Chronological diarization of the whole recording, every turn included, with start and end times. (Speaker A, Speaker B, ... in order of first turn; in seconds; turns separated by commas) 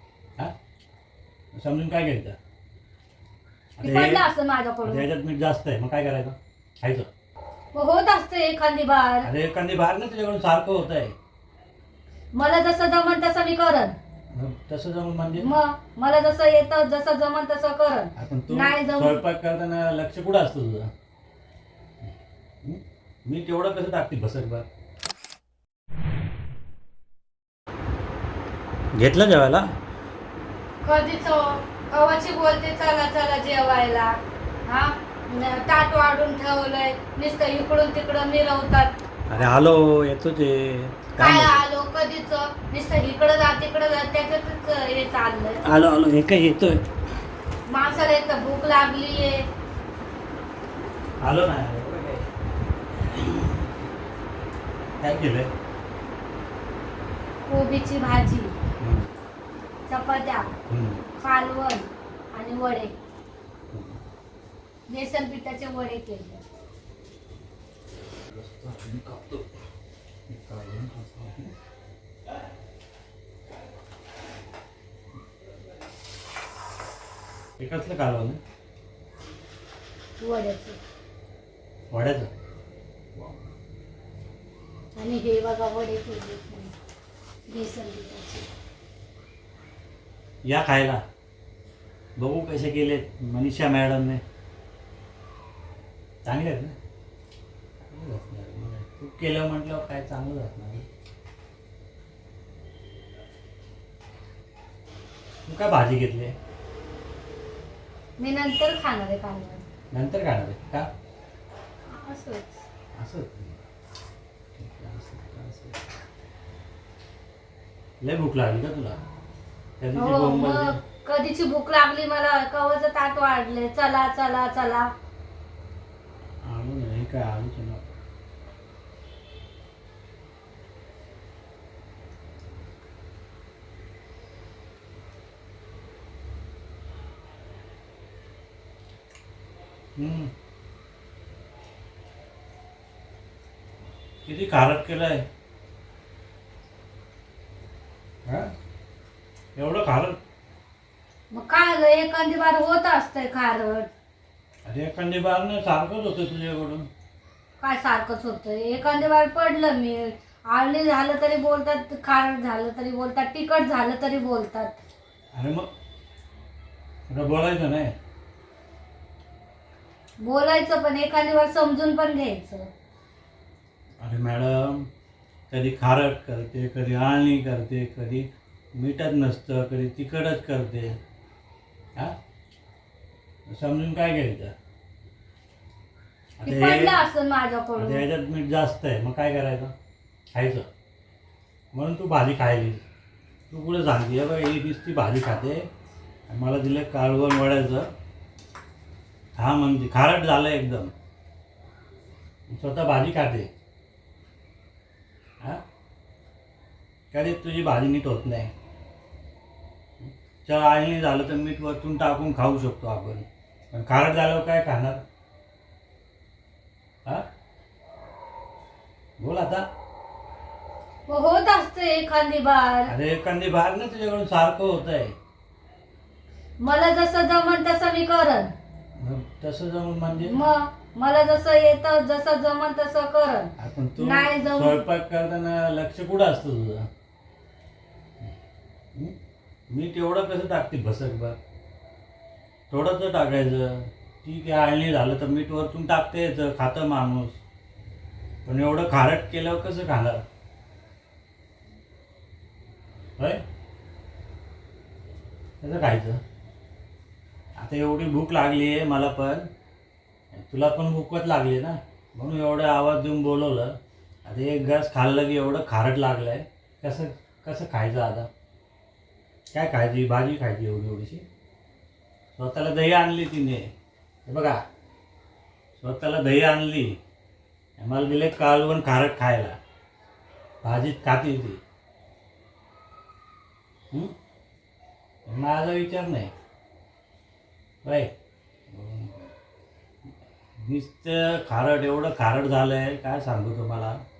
Speaker A: 1.5-2.4, Speaker A: 3.8-4.2, Speaker B: 3.8-5.0, Speaker A: 4.8-7.1, Speaker B: 7.7-9.3, Speaker A: 9.2-11.1, Speaker B: 12.3-13.9, Speaker A: 14.3-15.5, Speaker B: 15.4-19.2, Speaker A: 18.2-20.9, Speaker A: 22.6-24.7, Speaker A: 28.9-29.7, Speaker B: 30.8-38.9, Speaker A: 39.3-41.6, Speaker B: 41.2-45.6, Speaker A: 45.6-46.8, Speaker B: 47.7-49.4, Speaker A: 51.2-52.3, Speaker A: 53.0-53.6, Speaker A: 55.0-55.5, Speaker B: 57.5-58.6, Speaker A: 58.8-59.1, Speaker B: 59.9-60.5, Speaker A: 60.7-61.0, Speaker B: 61.2-63.0, Speaker A: 63.7-64.0, Speaker B: 64.9-66.4, Speaker A: 68.3-69.5, Speaker A: 70.3-71.5, Speaker A: 77.6-78.4, Speaker B: 80.2-80.8, Speaker A: 81.9-82.3, Speaker B: 85.0-86.8, Speaker B: 87.5-88.5, Speaker A: 90.5-91.0, Speaker A: 92.2-94.2, Speaker A: 96.2-96.8, Speaker A: 97.8-100.9, Speaker A: 105.5-106.3, Speaker B: 108.2-109.7, Speaker A: 109.9-110.9, Speaker B: 111.9-112.6, Speaker A: 113.0-113.6, Speaker A: 114.6-115.8, Speaker A: 118.0-119.0, Speaker A: 119.8-120.8, Speaker B: 120.0-124.9, Speaker A: 126.4-127.8, Speaker A: 140.0-140.3, Speaker A: 144.2-145.3, Speaker A: 148.3-148.5, Speaker A: 149.6-150.2, Speaker B: 151.3-153.9, Speaker A: 154.7-156.9, Speaker B: 157.6-164.8, Speaker A: 165.3-165.7, Speaker A: 167.1-167.9, Speaker B: 170.2-172.7, Speaker A: 174.0-174.9, Speaker A: 175.5-181.0, Speaker A: 183.5-184.5, Speaker A: 186.4-187.0, Speaker B: 186.4-188.0, Speaker A: 187.8-189.7, Speaker A: 190.3-190.7, Speaker A: 191.7-192.8, Speaker A: 193.5-195.7, Speaker A: 196.3-197.9, Speaker A: 199.4-200.9, Speaker A: 202.5-203.5, Speaker A: 207.1-208.5, Speaker A: 210.0-215.0, Speaker A: 219.2-219.7, Speaker B: 221.1-222.9, Speaker A: 222.9-225.1, Speaker B: 226.6-228.5, Speaker A: 229.0-230.4, Speaker B: 230.3-234.8, Speaker A: 233.6-236.9, Speaker A: 239.7-241.4, Speaker A: 242.7-247.4, Speaker A: 248.4-250.2, Speaker A: 253.2-253.4, Speaker A: 255.6-256.2, Speaker A: 257.6-259.5, Speaker A: 260.3-268.3, Speaker A: 269.5-271.2, Speaker A: 272.4-273.7, Speaker A: 274.3-274.6, Speaker A: 275.8-277.0, Speaker A: 277.8-279.6, Speaker A: 280.6-281.6, Speaker A: 285.3-286.3, Speaker A: 287.8-288.1, Speaker A: 288.7-289.3, Speaker A: 290.6-294.0